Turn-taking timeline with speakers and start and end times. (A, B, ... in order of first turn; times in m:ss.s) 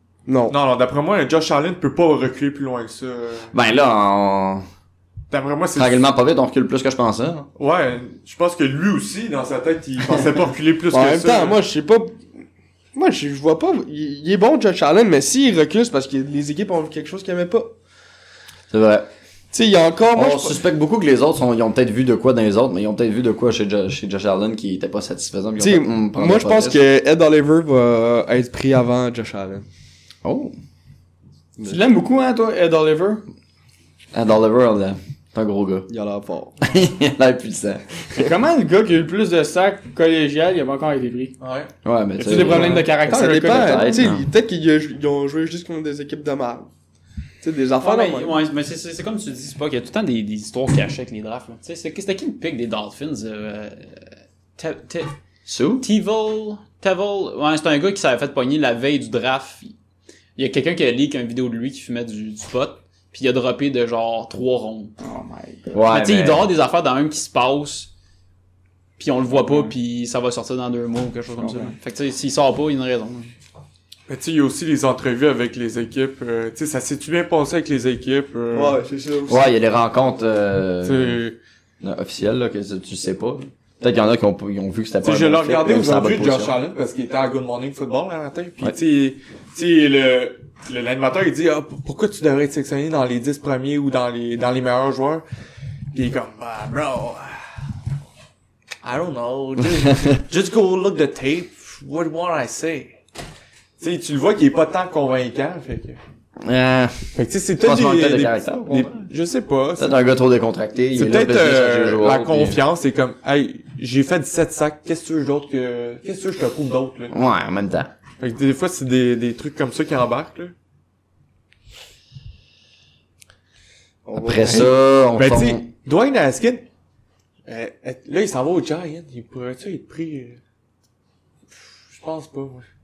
0:00.2-0:00.6 A
0:00.5-0:03.5 B
0:03.5-0:04.6 C
0:05.3-0:06.0 B
0:05.8-0:07.5 C
0:07.6-0:11.6 B
0:10.9-0:12.2 A
0:12.9-0:17.7 A
0:18.7-0:19.1 C
0:19.5-0:20.6 A
0:20.1-0:26.8 C
0:25.6-0:29.6 A
0:30.2-0:30.6 C
0:31.6-0:33.2 D
0:34.1-0:35.9 C
0:35.9-0:36.6 A
0:36.6-0:37.9 C
0:38.1-0:41.3 D
0:41.4-0:41.7 B
0:41.8-0:44.2 C
0:42.2-0:44.0 D
0:42.4-0:46.7 A
0:47.4-0:48.3 A
0:47.8-0:55.1 E
0:55.4-0:55.8 C
0:55.8-0:59.7 E
1:00.4-1:04.9 E
1:05.0-1:05.7 D
1:05.7-1:06.5 C
1:05.9-1:07.9 E
1:09.0-1:13.3 E
1:11.4-1:11.7 D
1:14.1-1:18.8 B
1:18.5-1:19.5 A
1:19.3-1:21.2 C
1:20.8-1:21.4 B
1:21.8-1:26.6 C
1:25.0-1:35.2 B
1:35.9-1:37.4 B
1:38.8-1:43.0 B
1:39.8-1:40.0 C
1:43.8-1:46.0 B
1:46.4-1:49.1 C
1:47.1-1:50.0 B
1:49.8-1:52.6 C
1:50.9-1:57.1 B
1:57.1-1:57.9 C
1:58.2-2:00.5 B
2:04.0-2:04.7 A
2:04.2-2:05.6 C
2:04.4-2:06.6 B
2:07.5-2:10.4 B
2:11.9-2:12.6 B